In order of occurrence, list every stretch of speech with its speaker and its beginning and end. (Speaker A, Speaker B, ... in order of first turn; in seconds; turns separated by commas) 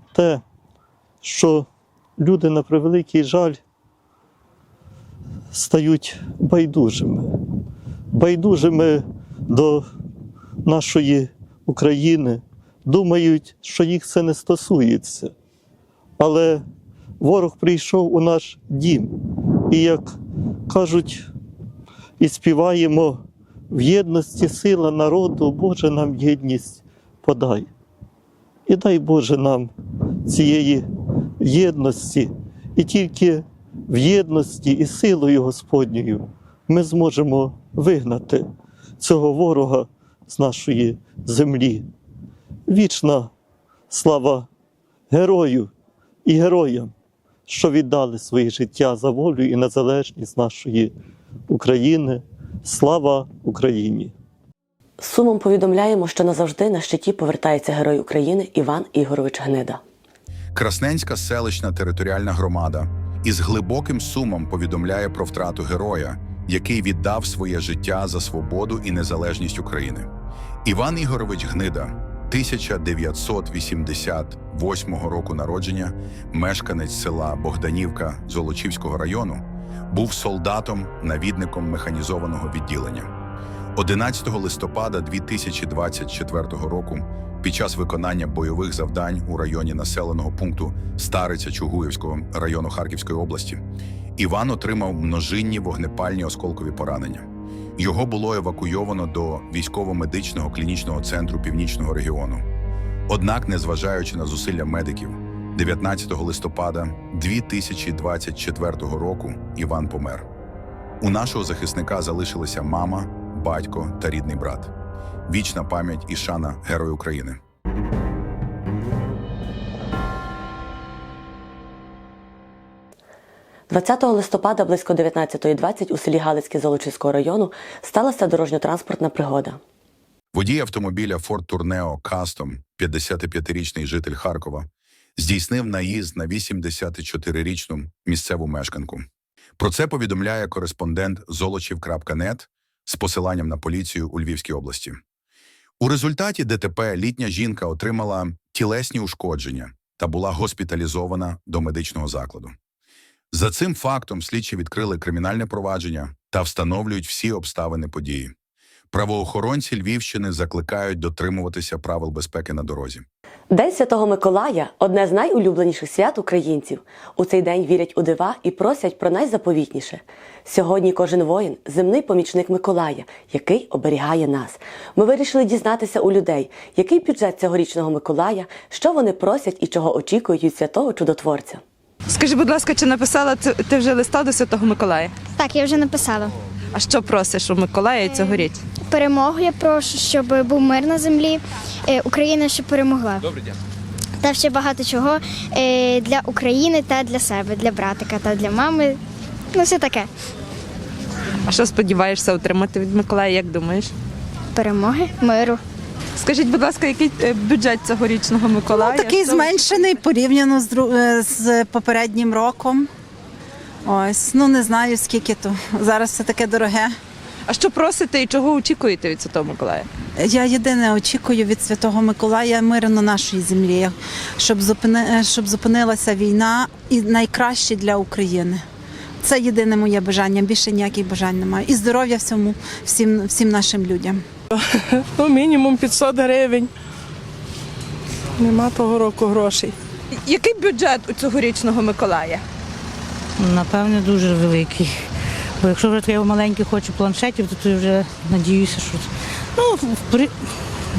Speaker A: 0.1-0.4, Speaker A: 1.2-1.7, Speaker A: 2.2-3.6, Speaker A: 5.5-7.3, Speaker A: 8.1-9.8, Speaker A: 10.7-15.3, Speaker A: 16.2-16.6, Speaker A: 17.2-19.1, Speaker A: 19.7-20.0, Speaker A: 20.7-21.3, Speaker A: 22.2-23.2, Speaker A: 23.7-27.7, Speaker A: 28.7-29.7, Speaker A: 30.3-30.8, Speaker A: 31.4-38.4, Speaker A: 39.0-41.8, Speaker A: 42.7-43.3, Speaker A: 43.9-44.5, Speaker A: 45.1-45.7, Speaker A: 46.3-46.9, Speaker A: 47.5-50.9, Speaker A: 51.5-54.1, Speaker B: 55.0-59.8, Speaker C: 60.5-70.1, Speaker C: 70.7-83.1, Speaker C: 83.8-93.6, Speaker C: 94.2-97.3, Speaker C: 97.8-102.4, Speaker C: 103.1-110.3, Speaker C: 111.0-114.7, Speaker C: 115.3-117.4, Speaker B: 123.7-129.6, Speaker C: 130.3-139.0, Speaker C: 139.6-145.0, Speaker C: 145.8-152.6, Speaker C: 153.3-158.3, Speaker C: 158.9-163.1, Speaker B: 163.5-181.6, Speaker D: 182.1-185.2, Speaker E: 185.4-186.3, Speaker D: 186.7-188.6, Speaker E: 188.1-193.2, Speaker E: 194.2-199.0, Speaker E: 199.5-200.1, Speaker D: 201.4-203.9, Speaker E: 204.6-205.6, Speaker D: 206.2-209.4, Speaker F: 208.8-212.9, Speaker F: 213.8-216.9, Speaker D: 217.5-219.9, Speaker F: 220.2-228.6, Speaker F: 229.2-234.2, Speaker G: 235.1-236.7, Speaker G: 238.4-239.7, Speaker D: 240.2-242.4, Speaker H: 243.4-244.9, Speaker H: 245.6-249.1, Speaker H: 249.6-250.3